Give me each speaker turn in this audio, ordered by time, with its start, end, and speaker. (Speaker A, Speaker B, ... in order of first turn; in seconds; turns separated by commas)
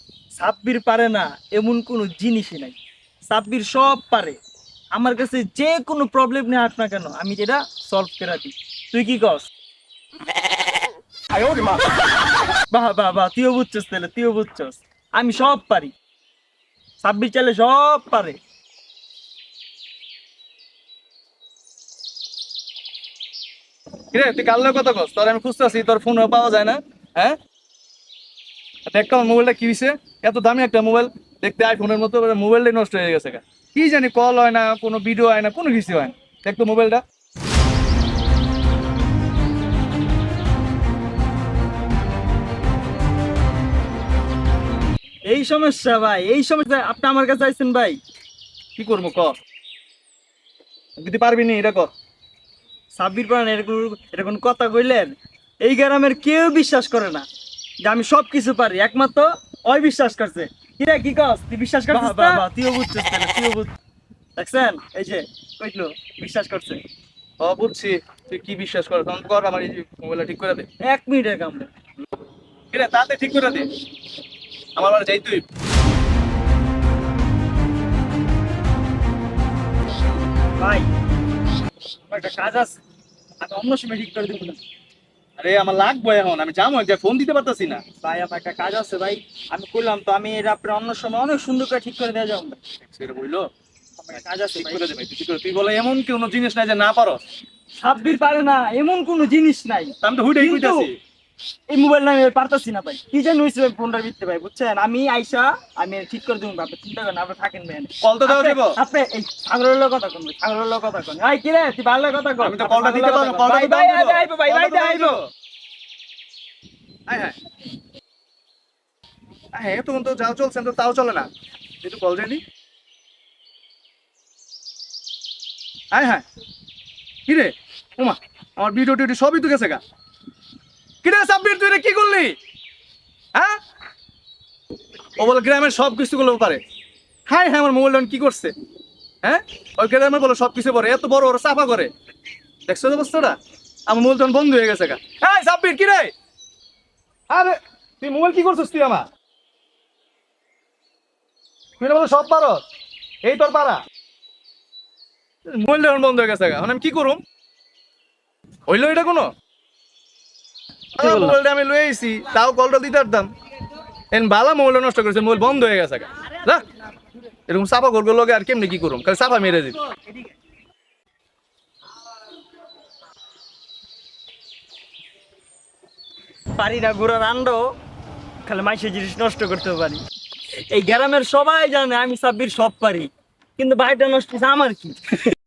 Speaker A: 0.3-2.8, Speaker A: 3.3-4.4, Speaker A: 5.0-9.5, Speaker A: 12.7-15.9, Speaker A: 17.0-18.4, Speaker B: 24.1-27.4, Speaker B: 28.9-37.0, Speaker A: 45.3-48.0, Speaker B: 48.8-49.4, Speaker B: 51.0-51.9, Speaker A: 52.9-57.3, Speaker A: 57.8-63.7, Speaker A: 64.4-66.8, Speaker B: 67.4-70.7, Speaker A: 70.8-71.7, Speaker B: 72.7-73.7, Speaker B: 74.8-75.5, Speaker A: 80.6-80.9, Speaker A: 82.1-82.8, Speaker A: 83.4-84.6, Speaker B: 85.4-87.8, Speaker A: 88.0-92.6, Speaker B: 92.9-93.5, Speaker A: 94.0-94.8, Speaker B: 94.5-97.2, Speaker A: 97.8-100.9, Speaker B: 100.0-101.0, Speaker A: 101.7-115.2, Speaker B: 108.0-108.8, Speaker B: 112.4-115.2, Speaker B: 117.1-117.4, Speaker B: 119.5-121.3, Speaker B: 121.8-122.4, Speaker B: 125.9-126.2, Speaker B: 127.3-129.8, Speaker B: 131.0-132.4, Speaker B: 135.2-136.6, Speaker B: 137.3-138.5, Speaker B: 139.2-141.9, Speaker B: 142.7-143.4, Speaker B: 143.9-146.1, Speaker B: 147.3-149.1, Speaker B: 151.8-152.6, Speaker B: 153.2-153.8, Speaker B: 155.5-157.2, Speaker B: 158.7-159.3, Speaker B: 161.0-163.3, Speaker A: 161.0-161.4, Speaker B: 164.1-166.6, Speaker B: 167.5-169.8, Speaker A: 176.6-177.7, Speaker A: 178.4-180.0, Speaker A: 180.7-185.2